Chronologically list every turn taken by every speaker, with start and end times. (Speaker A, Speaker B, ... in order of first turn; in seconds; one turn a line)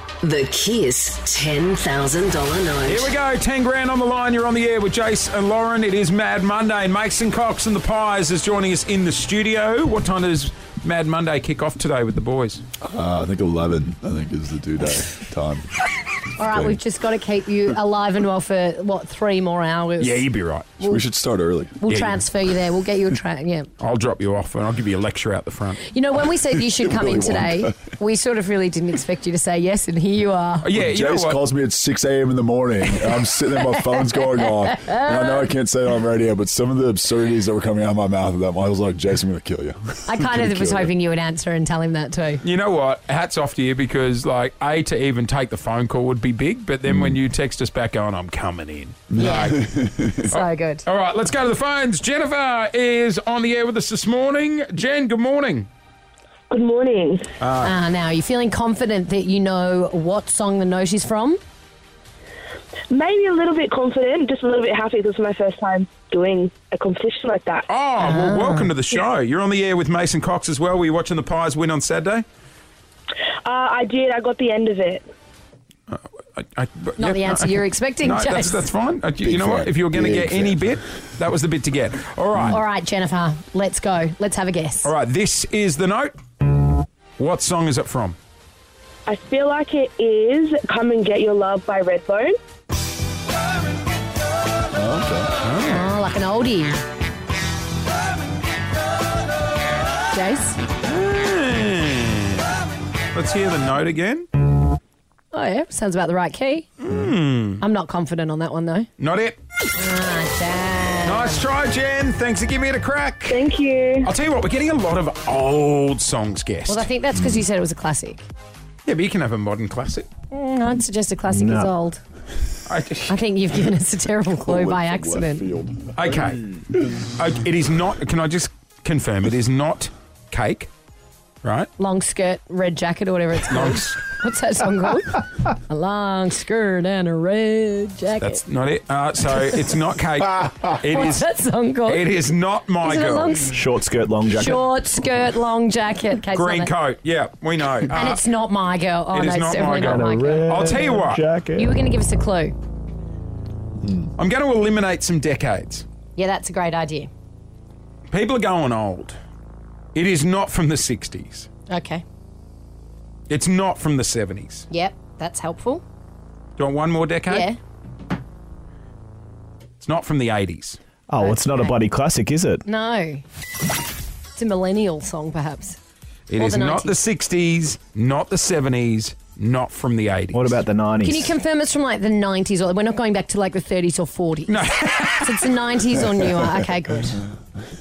Speaker A: 0.2-3.1
Speaker B: 2.9-12.6
Speaker C: 12.8-15.7
Speaker D: 16.4-20.2
Speaker C: 16.4-16.8
Speaker B: 20.0-20.7
Speaker C: 20.8-21.8
Speaker D: 21.8-23.7
Speaker B: 21.9-22.2
Speaker B: 23.8-25.8
Speaker D: 25.8-30.7
Speaker C: 26.6-27.8
Speaker B: 30.6-31.4
Speaker C: 30.7-40.9
Speaker D: 33.6-35.4
Speaker D: 40.0-42.4
Speaker B: 42.4-49.6
Speaker C: 46.9-47.2
Speaker C: 49.1-50.3
Speaker D: 49.2-49.6
Speaker D: 50.3-50.8
Speaker B: 50.3-55.7
Speaker E: 56.5-57.3
Speaker B: 57.4-57.8
Speaker D: 57.6-61.4
Speaker E: 62.9-67.6
Speaker B: 67.7-72.2
Speaker D: 68.0-68.7
Speaker E: 73.4-75.0
Speaker B: 75.9-82.6
Speaker D: 77.0-78.7
Speaker C: 79.2-80.8
Speaker D: 82.5-84.9
Speaker B: 84.8-86.2
Speaker B: 87.2-88.2
Speaker E: 89.1-92.3
Speaker C: 94.7-95.3
Speaker B: 95.4-95.8
Speaker D: 95.7-96.8
Speaker D: 100.1-100.6
Speaker B: 100.8-102.4
Speaker B: 103.1-104.3
Speaker D: 105.3-106.7
Speaker B: 106.8-107.6
Speaker D: 107.6-108.9
Speaker B: 109.0-109.4
Speaker D: 109.7-111.5
Speaker B: 111.0-113.5
Speaker E: 113.3-114.1
Speaker B: 114.0-116.9
Speaker D: 116.7-118.2
Speaker B: 118.8-120.1
Speaker D: 120.3-122.0
Speaker F: 121.3-121.7
Speaker B: 122.7-123.2
Speaker D: 123.1-125.5
Speaker C: 124.4-126.1
Speaker B: 126.0-126.5
Speaker B: 127.0-130.7
Speaker B: 131.4-131.7
Speaker D: 131.8-138.4
Speaker B: 133.5-134.0
Speaker B: 138.2-141.3
Speaker D: 140.8-142.1
Speaker B: 141.8-143.5
Speaker D: 142.8-143.6
Speaker F: 143.5-144.7
Speaker D: 144.3-146.7
Speaker B: 146.3-148.2
Speaker D: 147.9-152.5
Speaker B: 149.1-151.2
Speaker F: 149.8-151.7
Speaker B: 154.2-155.8
Speaker D: 156.1-157.1
Speaker B: 158.1-159.2
Speaker B: 159.9-161.5
Speaker D: 161.7-162.0
Speaker B: 163.3-164.7
Speaker D: 164.7-165.8
Speaker B: 166.6-167.5
Speaker D: 167.3-167.6
Speaker B: 169.8-170.8
Speaker F: 171.1-172.6
Speaker D: 171.2-171.8
Speaker D: 172.6-173.2
Speaker D: 174.3-175.8
Speaker B: 176.3-180.6
Speaker D: 176.3-177.0
Speaker F: 180.3-181.3
Speaker D: 181.0-184.6
Speaker B: 184.5-185.5
Speaker D: 185.2-187.2